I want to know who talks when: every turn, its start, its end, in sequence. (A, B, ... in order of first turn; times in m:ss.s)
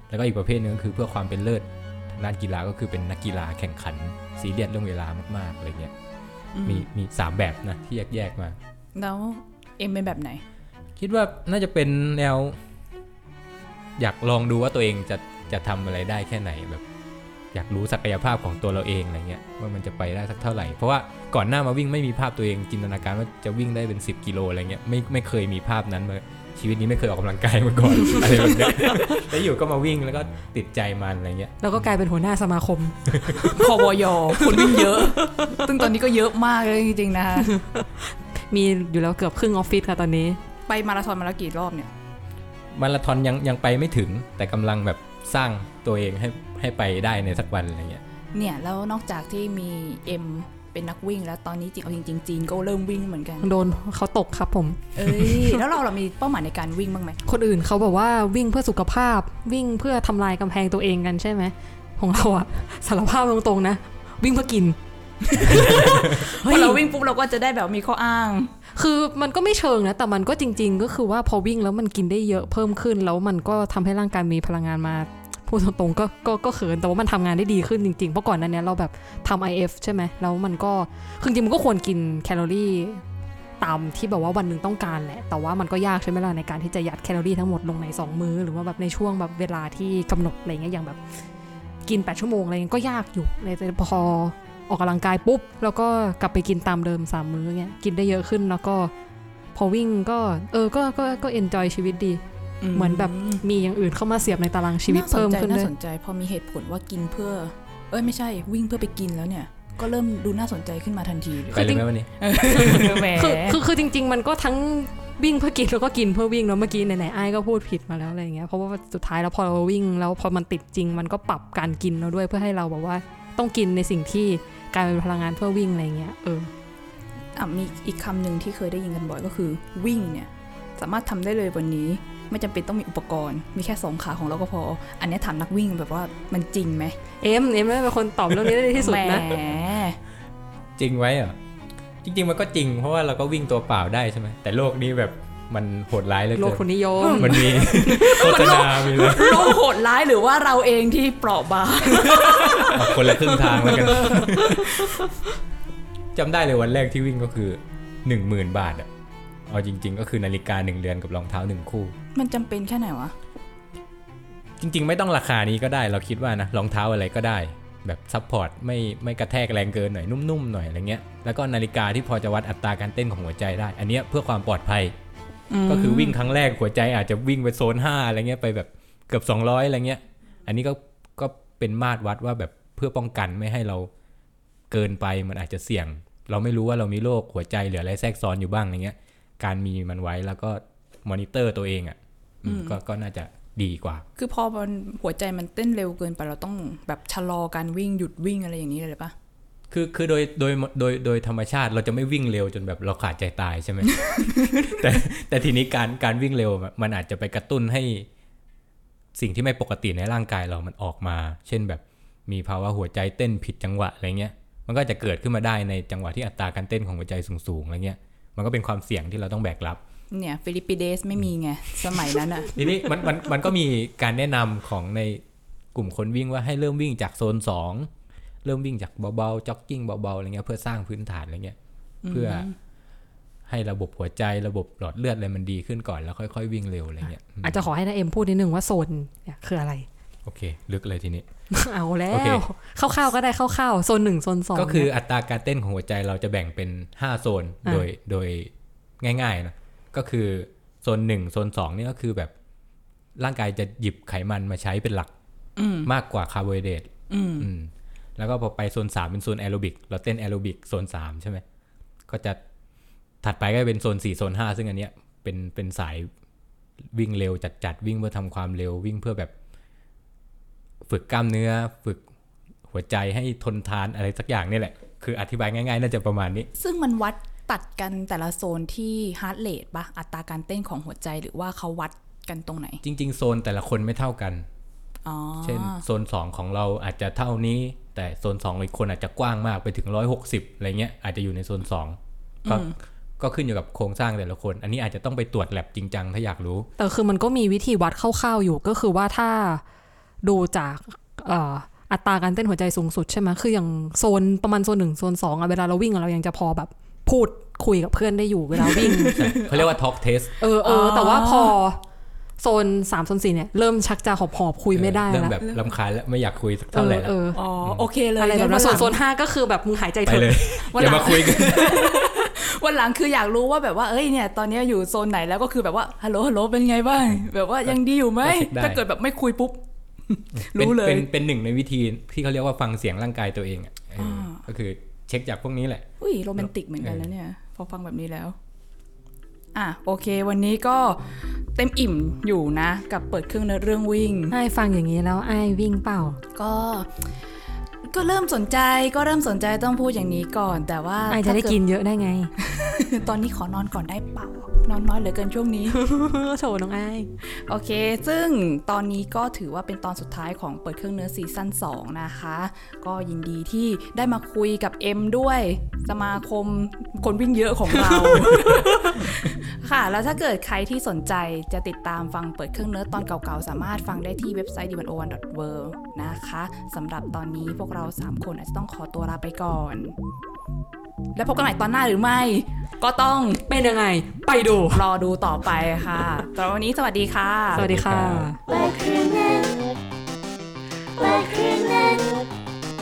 0:00.1-0:05.9 A
0:06.5-0:06.9 B
0:06.6-0:08.6 A
0:08.9-0:10.4 B
0:11.0-0:12.6 A
0:14.0-0:16.8 A
0:17.5-0:31.5 A
0:28.2-0:28.7 B
0:31.6-0:33.7 C
0:33.1-0:33.4 A
0:33.5-0:37.5 B
0:34.4-0:35.7 C
0:37.4-0:40.4 C
0:40.7-0:41.9 B
0:42.7-0:48.0 A
0:48.3-0:53.5 B
0:53.4-0:55.6 C
0:55.0-0:57.2 B
0:57.2-1:04.8 C
1:05.2-1:08.5 B
1:05.3-1:06.8 C
1:08.7-1:23.0 C
1:23.6-1:31.0 C
1:31.8-1:38.9 C
1:39.5-1:42.2 C
1:42.6-1:43.4 B
1:42.7-1:45.7 C
1:44.9-1:53.6 B
1:51.5-1:52.9 A
1:51.5-2:06.5 C
2:07.4-2:17.0 B
2:17.2-2:19.3 C
2:18.7-2:20.0 B
2:20.8-2:21.4 A
2:22.0-2:29.6 A
2:26.4-2:28.2 C
2:27.0-2:35.1 B
2:32.6-2:34.8 A
2:36.1-2:38.9 A
2:39.5-2:42.0 A
2:42.1-2:43.1 B
2:44.6-2:54.9 A
2:55.5-2:56.2 B
2:55.7-3:03.9 A
3:04.7-3:14.0 A
3:12.4-3:12.8 B
3:14.2-3:19.1 B
3:19.7-3:28.1 A
3:23.9-3:24.6 B
3:29.1-3:39.8 A
3:40.1-3:42.6 B
3:42.5-3:45.2 A
3:45.7-3:47.9 A
3:48.4-3:51.6 A
3:52.0-3:52.6 B
3:52.1-3:52.5 A
3:53.5-3:57.6 A
3:57.4-3:59.9 C
4:00.2-4:01.2 A
4:01.5-4:04.9 C
4:02.1-4:02.4 A
4:04.5-4:12.3 A
4:13.2-4:15.1 A
4:15.6-4:15.9 B
4:15.8-4:21.4 A
4:17.1-4:17.5 B
4:22.1-4:22.4 A
4:23.2-4:26.1 A
4:26.9-4:29.3 A
4:30.9-4:32.0 A
4:32.7-4:36.5 A
4:36.6-4:42.8 B
4:42.8-4:44.5 A
4:45.0-4:45.8 B
4:45.4-4:56.7 A
4:52.4-4:52.7 B
4:56.8-4:59.6 C
5:00.2-5:09.3 C
5:08.6-5:09.6 B
5:09.0-5:10.3 A
5:10.4-5:11.8 C
5:10.6-5:11.5 B
5:12.4-5:15.4 C
5:14.7-5:17.9 A
5:15.4-5:15.6 B
5:16.7-5:17.4 C
5:17.3-5:19.0 B
5:18.2-5:21.5 C
5:20.0-5:22.3 A
5:20.7-5:31.1 B
5:28.2-5:28.8 A
5:30.4-5:35.9 A
5:34.0-5:34.4 B
5:36.0-5:38.4 B
5:36.4-5:37.1 A
5:39.5-5:44.4 B
5:44.3-5:46.2 C
5:46.4-5:46.9 B
5:47.9-5:51.6 B
5:51.1-5:52.3 C
5:52.4-5:55.8 B
5:55.7-5:57.1 C
5:57.3-6:19.9 B
6:08.1-6:09.0 C
6:21.1-6:23.4 B
6:23.5-6:24.8 C
6:24.7-6:27.6 B
6:27.5-6:28.3 A
6:27.5-6:28.4 C
6:28.5-6:29.7 B
6:30.9-6:32.2 B